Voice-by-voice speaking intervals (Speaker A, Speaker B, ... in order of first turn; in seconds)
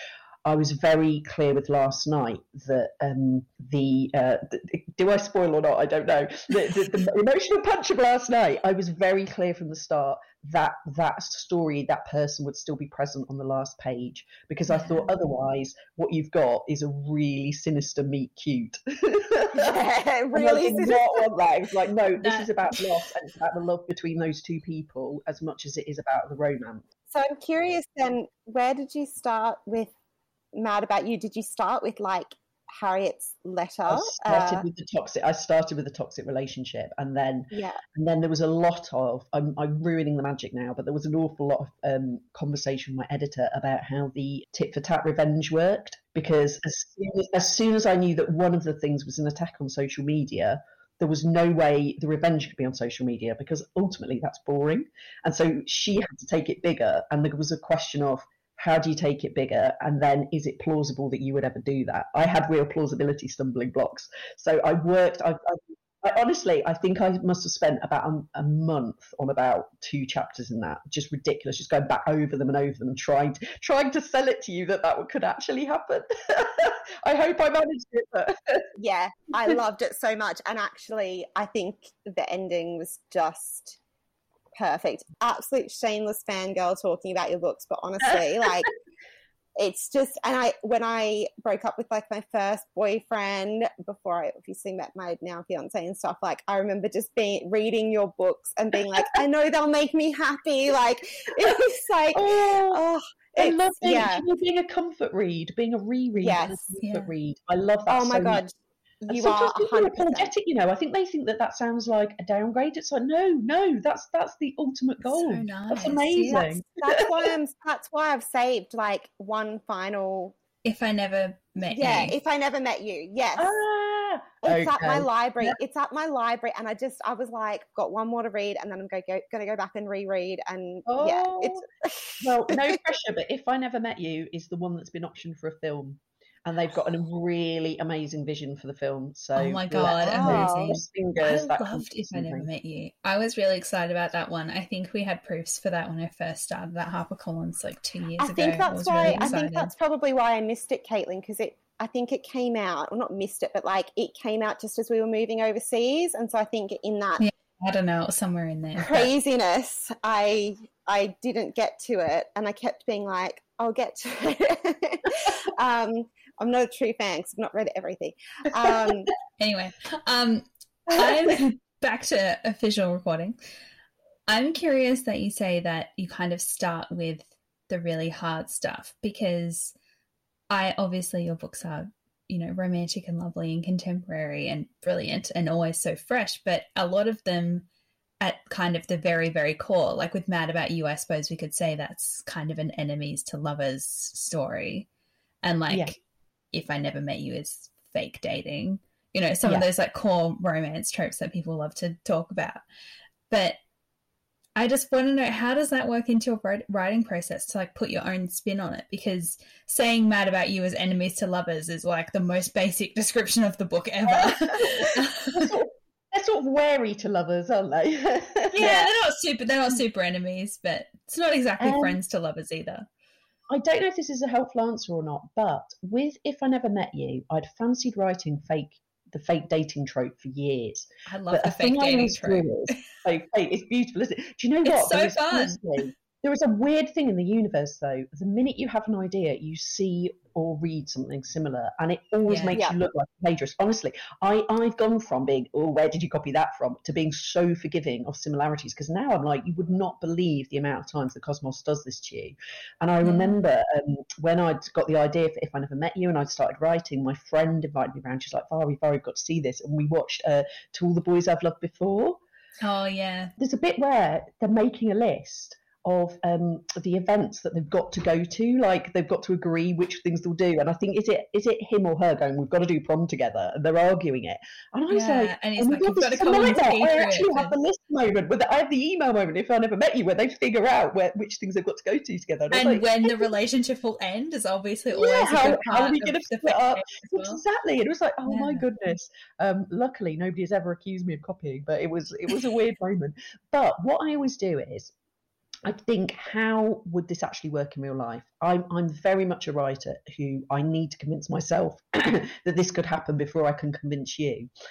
Speaker A: 0.5-19.8, 20.3-26.9, 33.9-78.7, 88.1-88.7, 102.2-102.8, 103.4-108.4, 109.1-117.2, 123.4-125.6, 130.9-131.7, 132.2-142.5, 149.0-149.3, 195.7-195.9, 214.1-218.8, 221.6-222.0, 223.5-262.2, 263.4-283.2, 284.9-294.9, 295.6-304.5
Speaker B: 14.7-15.1, 22.2-22.5, 106.8-107.1, 115.0-116.5, 120.6-122.2, 139.4-149.7, 157.2-159.1, 169.4-173.4, 174.3-179.8, 180.5-187.7, 188.2-194.9, 195.4-196.0, 196.5-202.6, 203.3-203.6, 204.6-215.6, 218.5-222.9, 231.1-232.8, 234.7-235.9, 242.3-242.6, 253.0-253.4, 262.6-263.3, 274.9-277.6, 282.5-287.4, 288.3-288.7
Speaker C: 19.6-21.3, 27.1-29.9, 30.5-34.6, 37.5-37.8, 78.8-83.8, 84.5-88.7, 89.6-104.2, 106.2-106.7, 107.9-108.5, 109.0-110.3, 116.3-120.3, 121.6-123.6, 124.4-132.7, 140.0-140.8, 148.2-157.2, 158.8-169.1, 218.6-218.9